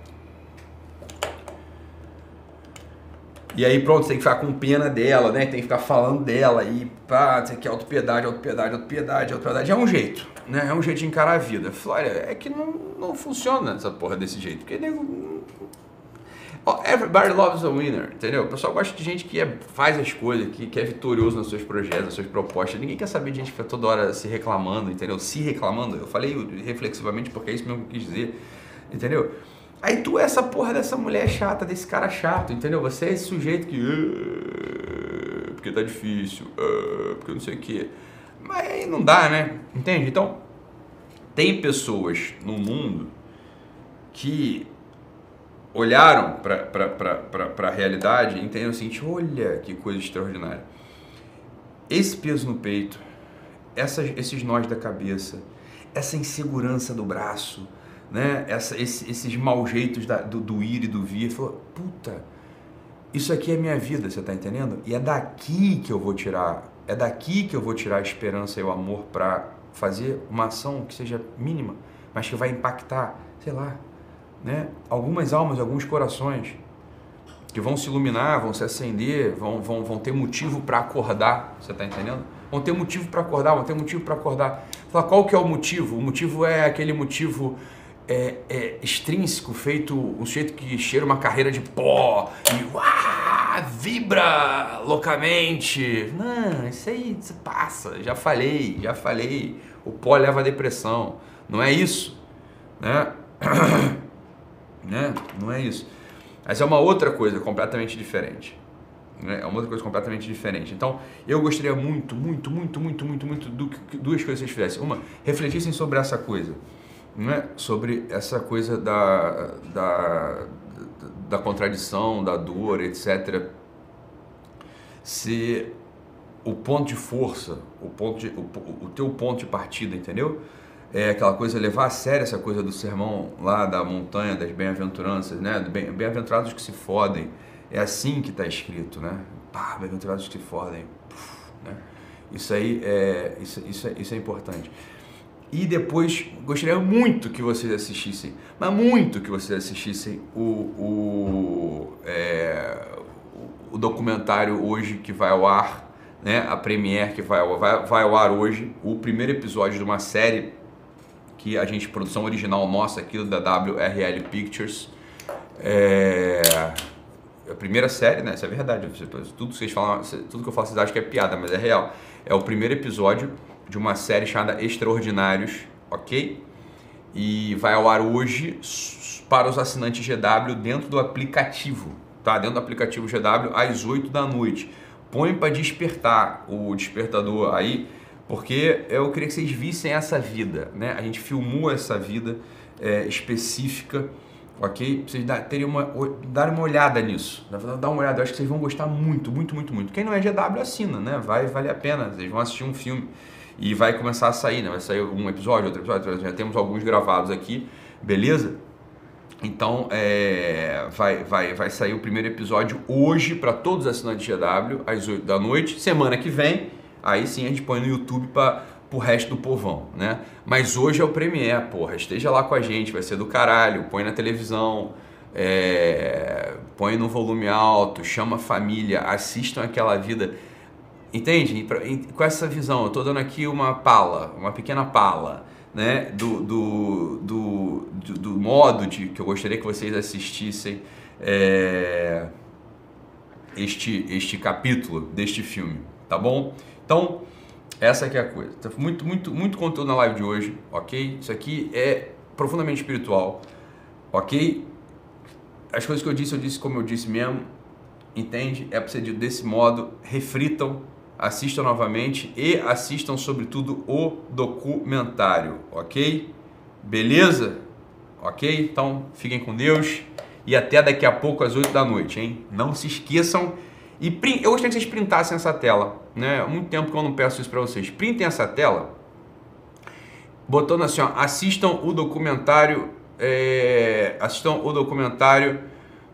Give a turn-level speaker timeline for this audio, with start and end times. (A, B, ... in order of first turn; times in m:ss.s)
0:03.5-0:15.5 A
0:16.6-0:28.4 A
0:28.9-0:40.4 A
0:41.3-0:43.1 A
0:44.1-0:44.7 A
0:45.7-0:50.6 A
0:51.9-0:53.0 A
0:53.8-1:02.2 A
1:03.1-1:13.8 A
1:14.4-1:16.6 A
1:17.5-1:42.2 A
1:42.8-1:44.0 A
1:44.8-1:45.9 A
1:46.4-1:48.6 A
1:49.2-1:56.6 A
1:57.1-2:03.5 A
2:05.0-2:05.7 A
2:06.4-2:10.4 A
2:10.9-2:24.7 A
2:25.5-2:40.5 A
2:41.4-2:44.9 A
2:45.6-2:46.8 A
2:47.4-2:56.4 A
2:57.1-3:28.6 A
3:29.4-3:50.3 A
3:51.1-4:02.3 A
4:03.5-4:07.2 A
4:07.8-4:13.4 A
4:14.1-4:14.7 A
4:15.7-4:17.5 A
4:18.1-4:26.3 A
4:26.8-4:27.6 A
4:28.2-4:38.9 A
4:40.5-4:45.6 A